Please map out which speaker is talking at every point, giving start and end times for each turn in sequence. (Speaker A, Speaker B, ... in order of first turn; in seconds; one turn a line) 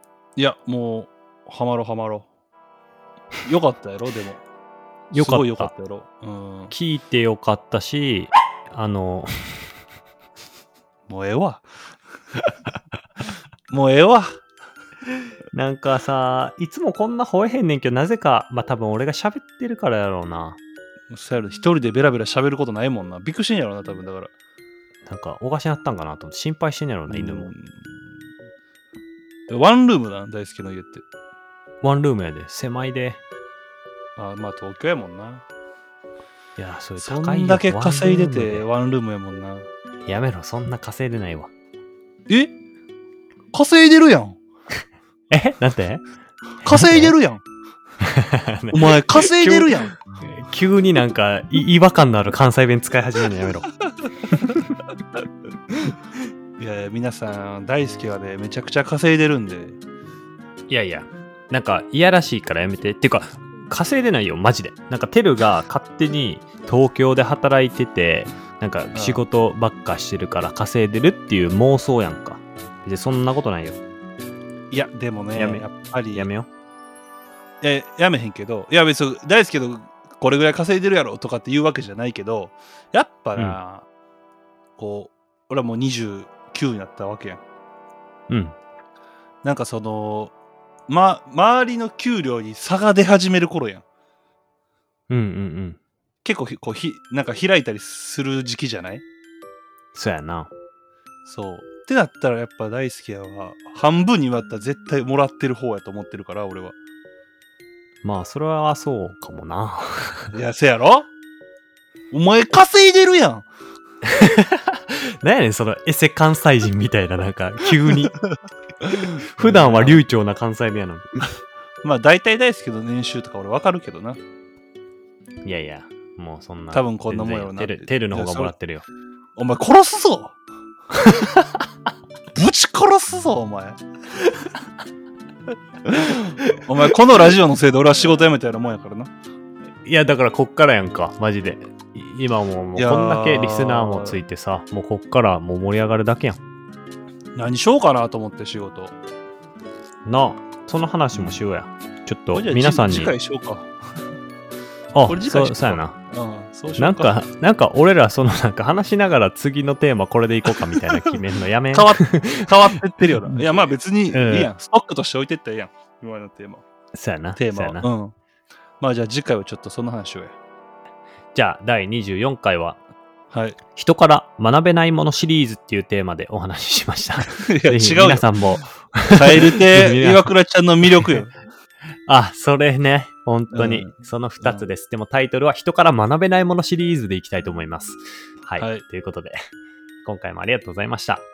Speaker A: 0.3-2.3
Speaker A: 3.4-4.4
Speaker B: 5.1-5.7
Speaker A: 5.2-6.7
Speaker B: 6.7-9.7
Speaker A: 11.1-11.6
Speaker A: 13.7-14.4
Speaker B: 15.5-20.6
Speaker A: 21.1-24.3
Speaker B: 25.1-27.5
Speaker A: 27.1-27.9
Speaker A: 29.5-31.0
Speaker B: 31.8-33.2
Speaker A: 34.2-35.4
Speaker B: 36.6-38.6
Speaker A: 37.0-39.7
Speaker B: 40.0-41.5
Speaker A: 42.3-42.5
Speaker A: 43.5-44.4
Speaker B: 45.3-46.0
Speaker B: 46.6-47.1
Speaker A: 46.6-47.4
Speaker B: 48.0-53.7
Speaker A: 48.7-50.0
Speaker B: 54.3-54.6
Speaker A: 56.6-59.8
Speaker B: 60.7-73.8
Speaker A: 68.9-69.2
Speaker A: 74.7-76.3
Speaker B: 75.3-76.5
Speaker A: 77.6-83.8
Speaker A: 84.8-87.4
Speaker B: 88.3-88.5
Speaker A: 89.4-90.3
Speaker A: 90.9-93.8
Speaker B: 95.1-95.8
Speaker A: 96.2-99.0
Speaker B: 100.0-100.5
Speaker A: 101.2-106.8
Speaker B: 108.0-110.3
Speaker A: 110.3-111.1
Speaker A: 112.1-113.5
Speaker B: 114.2-118.2
Speaker A: 118.8-120.0
Speaker B: 119.0-121.3
Speaker A: 121.8-124.2
Speaker B: 125.4-128.8
Speaker A: 126.7-128.5
Speaker A: 129.3-130.4
Speaker B: 130.9-131.4
Speaker A: 132.3-133.8
Speaker A: 135.8-139.1
Speaker B: 139.8-146.4
Speaker A: 142.8-144.2
Speaker A: 147.3-148.9
Speaker B: 150.1-153.1
Speaker A: 151.1-151.4
Speaker A: 152.3-153.8
Speaker B: 154.9-155.9
Speaker A: 155.1-157.2
Speaker B: 156.8-162.5
Speaker A: 160.8-161.1
Speaker A: 161.7-166.6
Speaker B: 163.3-164.5
Speaker B: 166.9-167.9
Speaker A: 167.3-168.1
Speaker A: 168.8-170.3
Speaker B: 171.3-172.8
Speaker A: 173.3-173.6
Speaker B: 173.7-180.3
Speaker A: 177.3-178.3
Speaker A: 179.1-181.3
Speaker B: 180.9-181.2
Speaker B: 182.1-189.4
Speaker A: 183.5-184.7
Speaker A: 188.6-188.8
Speaker B: 190.0-191.2